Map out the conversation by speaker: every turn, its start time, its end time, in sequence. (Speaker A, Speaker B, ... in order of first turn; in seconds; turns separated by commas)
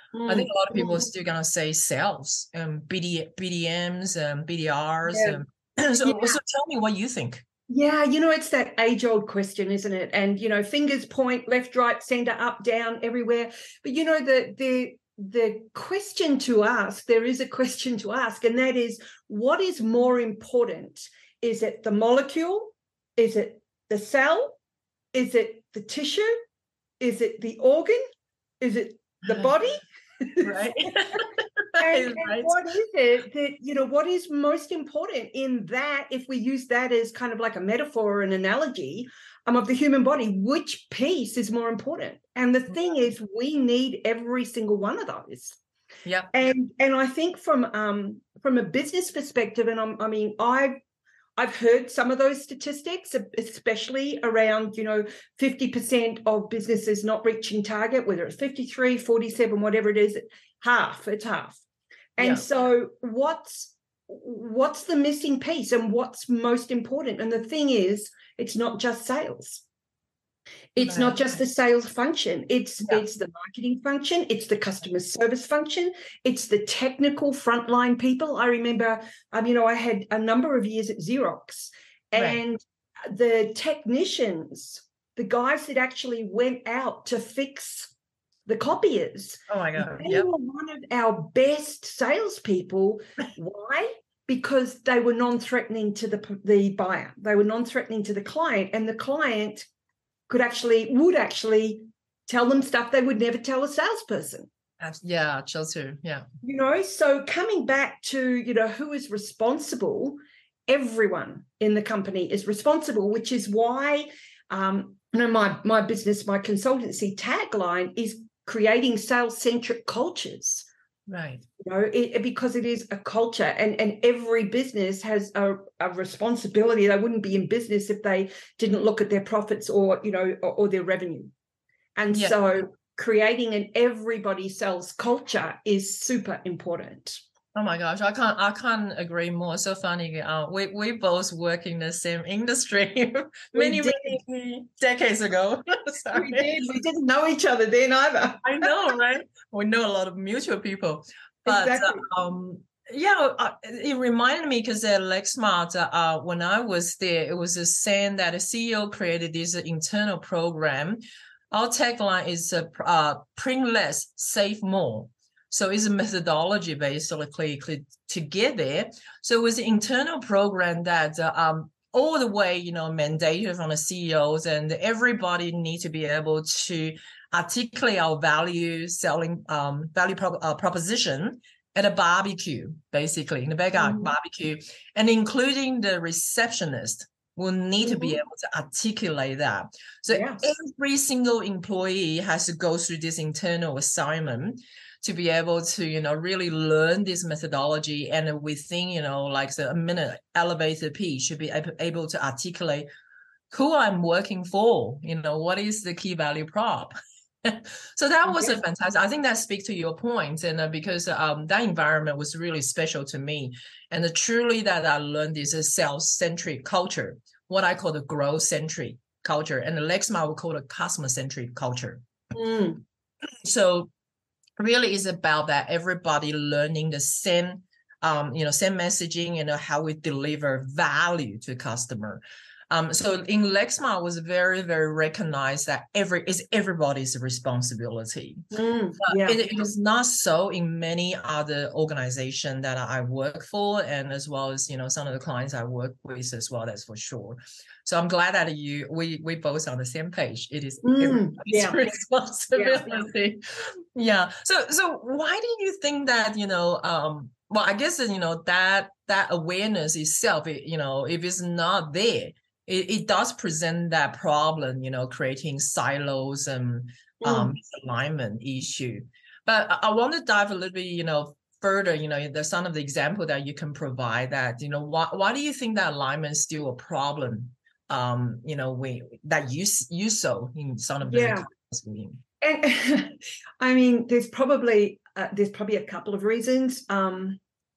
Speaker A: 0.1-1.1, Speaker B: 0.3-7.4, Speaker A: 5.1-5.4, Speaker A: 6.0-6.3, Speaker A: 7.7-24.6, Speaker A: 25.1-26.4, Speaker A: 27.0-28.0, Speaker A: 28.6-31.2, Speaker B: 30.4-32.5, Speaker A: 31.8-45.6, Speaker B: 46.1-46.4, Speaker A: 46.3-50.8, Speaker A: 51.4-61.6, Speaker A: 62.1-69.6, Speaker B: 62.2-62.4, Speaker A: 70.8-87.9, Speaker B: 70.8-71.3, Speaker A: 88.5-99.7, Speaker B: 89.5-90.3, Speaker A: 100.3-104.5, Speaker B: 104.8-106.2, Speaker A: 106.4-120.7, Speaker B: 121.1-121.4, Speaker A: 121.6-131.3, Speaker A: 131.9-137.2, Speaker B: 132.1-132.4, Speaker B: 137.6-146.7, Speaker A: 143.5-144.2, Speaker A: 146.1-148.8, Speaker B: 148.4-161.0, Speaker A: 151.4-152.1, Speaker B: 161.5-202.9, Speaker A: 183.8-184.1, Speaker A: 187.8-188.2, Speaker A: 190.1-190.4, Speaker B: 203.5-206.9, Speaker B: 207.4-222.0, Speaker A: 208.3-208.5, Speaker A: 222.3-222.8, Speaker B: 223.4-223.9, Speaker B: 224.6-238.4, Speaker A: 238.5-239.4, Speaker B: 239.0-253.4, Speaker A: 250.8-251.8, Speaker A: 252.6-253.1, Speaker B: 253.9-282.2, Speaker A: 267.2-267.5, Speaker A: 281.1-281.5, Speaker A: 282.4-287.4